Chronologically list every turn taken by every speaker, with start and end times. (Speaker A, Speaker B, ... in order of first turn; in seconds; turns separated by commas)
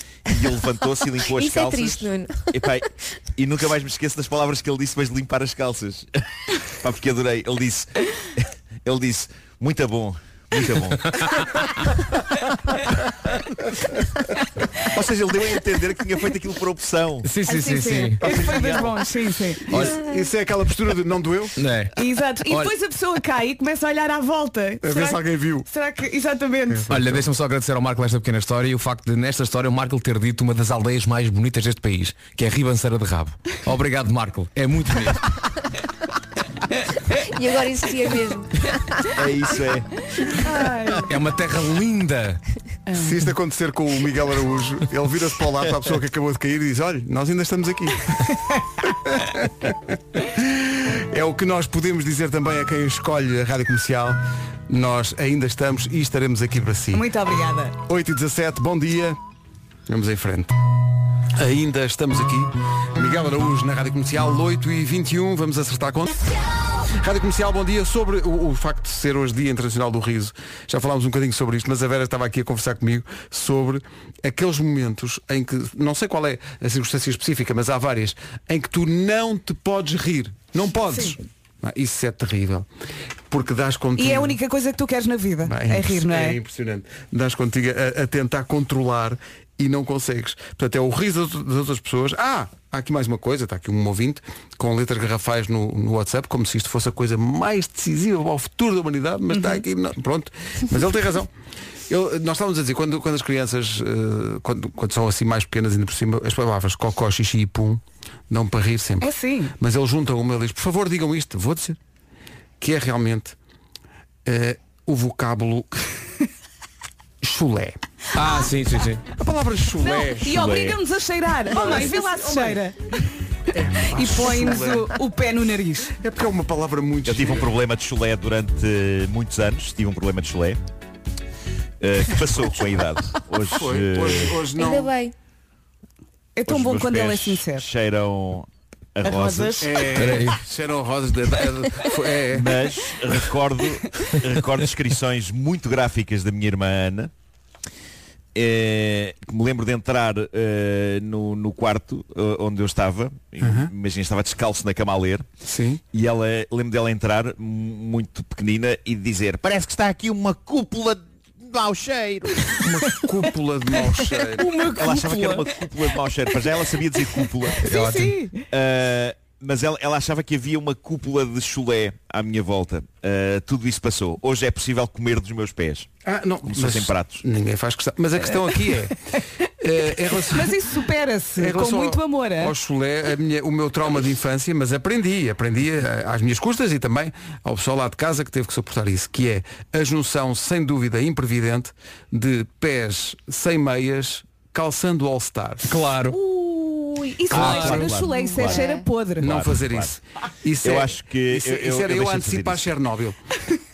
Speaker A: 0.3-6.1, Speaker B: 1.2-2.8, Speaker A: 6.8-11.7, Speaker C: 11.0-11.7, Speaker A: 14.8-17.3, Speaker C: 17.2-18.4, Speaker D: 17.5-19.7, Speaker A: 18.3-19.0, Speaker C: 19.7-20.0, Speaker E: 19.7-21.6, Speaker C: 21.6-21.9, Speaker D: 22.0-26.9, Speaker C: 22.5-22.7, Speaker E: 24.8-25.7, Speaker E: 26.7-27.3, Speaker C: 26.9-35.3, Speaker B: 37.2-39.2, Speaker A: 39.1-40.3, Speaker D: 40.4-41.1, Speaker C: 41.1-42.4, Speaker D: 42.9-43.2, Speaker E: 42.9-48.3, Speaker E: 48.8-57.1, Speaker D: 56.9-57.8, Speaker E: 57.9-59.2, Speaker E: 59.9-60.5, Speaker E: 61.3-82.7, Speaker D: 80.9-81.2, Speaker E: 83.3-84.4, Speaker D: 84.0-86.4, Speaker E: 85.5-101.3, Speaker D: 99.3-99.6, Speaker E: 101.9-111.8, Speaker D: 109.0-109.5, Speaker E: 112.6-113.4, Speaker E: 114.2-115.9, Speaker E: 117.2-117.8, Speaker C: 118.1-119.0, Speaker E: 119.2-120.5, Speaker D: 119.8-122.8, Speaker A: 120.3-120.8, Speaker E: 121.5-122.6, Speaker E: 123.5-125.0, Speaker D: 123.7-125.9, Speaker E: 126.0-127.6, Speaker A: 127.1-130.6, Speaker A: 131.8-134.4, Speaker E: 133.5-134.9, Speaker B: 134.5-135.1, Speaker D: 136.4-137.7, Speaker A: 136.5-139.8, Speaker D: 139.0-139.9, Speaker E: 139.6-142.5, Speaker C: 139.9-140.4, Speaker A: 142.3-147.1, Speaker A: 148.3-155.3, Speaker E: 153.4-153.7, Speaker E: 155.4-155.8, Speaker A: 155.9-162.6, Speaker E: 162.6-164.5, Speaker C: 164.4-165.5, Speaker A: 164.8-167.7, Speaker C: 167.6-168.2, Speaker D: 167.6-168.4, Speaker A: 168.5-175.9, Speaker E: 176.1-195.8, Speaker A: 176.5-177.2, Speaker D: 180.1-182.6, Speaker C: 195.7-196.2, Speaker D: 196.1-199.3, Speaker A: 197.3-198.6, Speaker E: 197.4-197.9, Speaker B: 198.0-198.9, Speaker E: 199.2-203.2, Speaker A: 199.2-199.9, Speaker A: 200.6-202.6